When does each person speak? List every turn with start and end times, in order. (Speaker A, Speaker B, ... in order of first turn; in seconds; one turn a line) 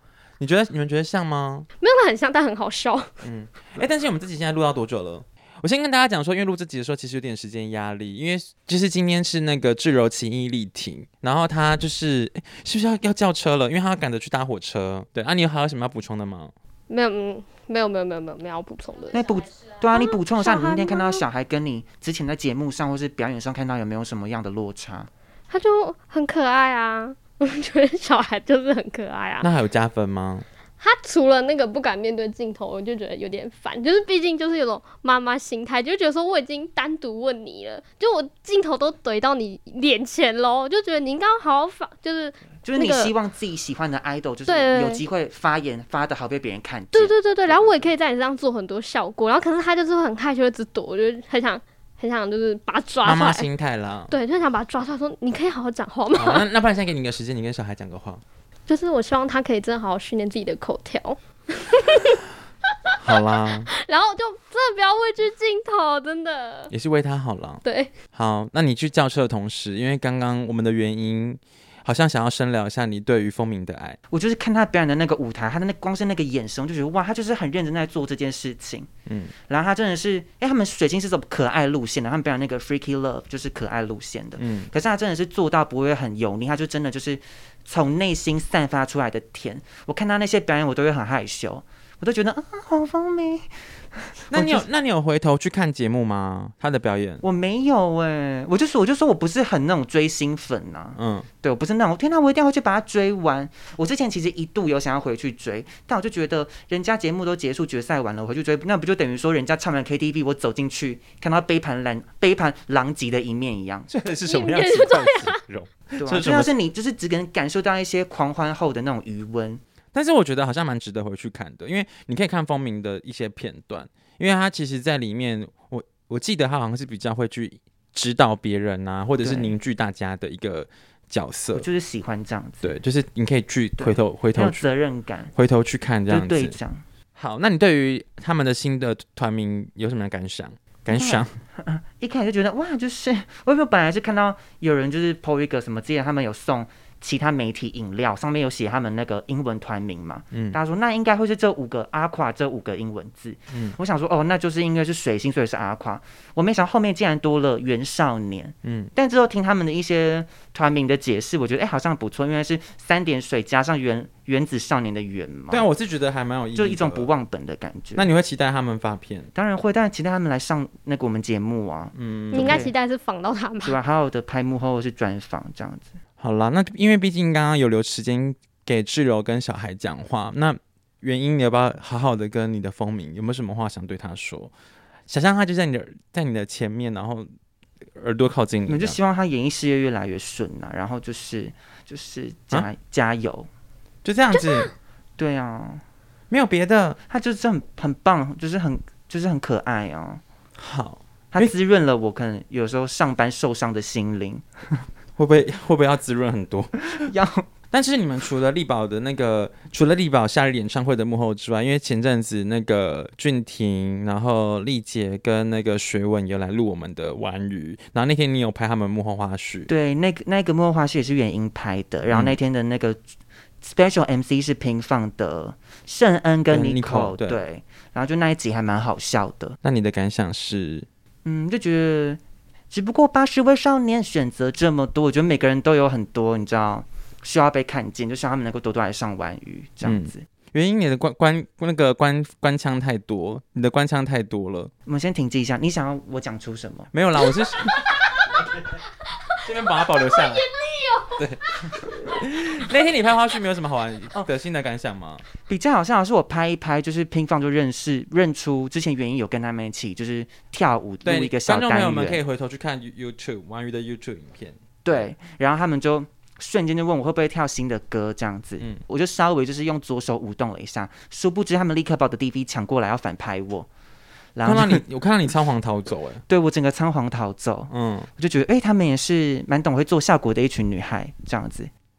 Speaker A: 0.4-1.7
Speaker B: 1.8-3.1
Speaker A: 3.2-16.5
Speaker B: 16.9-21.2
Speaker C: 19.1-25.1
Speaker B: 25.5-29.5
Speaker A: 29.4-30.4
Speaker B: 30.8-43.1
Speaker C: 42.6-47.9
Speaker B: 44.5-45.0
Speaker B: 46.9-53.5
Speaker A: 53.0-54.1
Speaker B: 54.1-56.5
Speaker A: 56.1-58.2
Speaker B: 58.7-62.2
Speaker A: 63.0-63.7
Speaker B: 63.8-66.7
Speaker A: 66.7-67.6
Speaker B: 67.6-67.9
Speaker A: 68.1-74.0
Speaker C: 74.1-78.9
Speaker A: 79.1-79.3
Speaker C: 79.5-94.7
Speaker A: 84.4-84.7
Speaker A: 94.3-97.2
Speaker C: 97.2-113.9
Speaker A: 101.0-101.3
Speaker A: 113.9-116.5
Speaker B: 114.3-115.4
Speaker C: 116.0-119.6
Speaker A: 119.9-131.7
Speaker C: 129.2-129.6
Speaker C: 131.5-132.7
Speaker A: 132.6-134.7
Speaker C: 133.8-135.3
Speaker A: 135.3-136.6
Speaker C: 136.1-136.8
Speaker A: 137.2-141.3
Speaker C: 140.9-165.7
Speaker A: 150.3-150.6
Speaker A: 153.5-153.8
Speaker A: 158.6-158.9
Speaker A: 165.5-167.1
Speaker C: 166.6-168.1
Speaker A: 167.9-169.3
Speaker C: 169.3-172.7
Speaker A: 171.9-172.7
Speaker B: 172.3-173.8
Speaker C: 173.6-175.9
Speaker A: 176.2-184.5
Speaker A: 185.1-187.3
Speaker A: 188.0-189.0
Speaker C: 188.7-193.5
Speaker A: 194.0-194.7
Speaker B: 194.3-194.7
Speaker C: 195.2-195.8
Speaker A: 196.3-197.0
Speaker C: 197.1-200.2
Speaker A: 200.6-201.5
Speaker C: 201.3-204.8
Speaker A: 205.2-207.1
Speaker C: 207.1-207.4
Speaker A: 207.7-219.7
Speaker C: 219.7-223.0
Speaker A: 222.1-222.4
Speaker C: 223.6-229.6
Speaker A: 226.5-227.4
Speaker A: 229.6-230.9
Speaker C: 231.2-232.2
Speaker C: 232.7-240.3
Speaker A: 239.8-244.7
Speaker C: 244.9-246.9
Speaker A: 246.9-248.1
Speaker A: 249.4-250.5
Speaker B: 249.8-251.2
Speaker A: 251.2-255.2
Speaker C: 255.5-262.2
Speaker A: 261.0-265.1
Speaker C: 264.8-273.7
Speaker C: 274.4-274.8
Speaker A: 274.4-276.2
Speaker C: 276.3-281.7
Speaker A: 277.7-278.1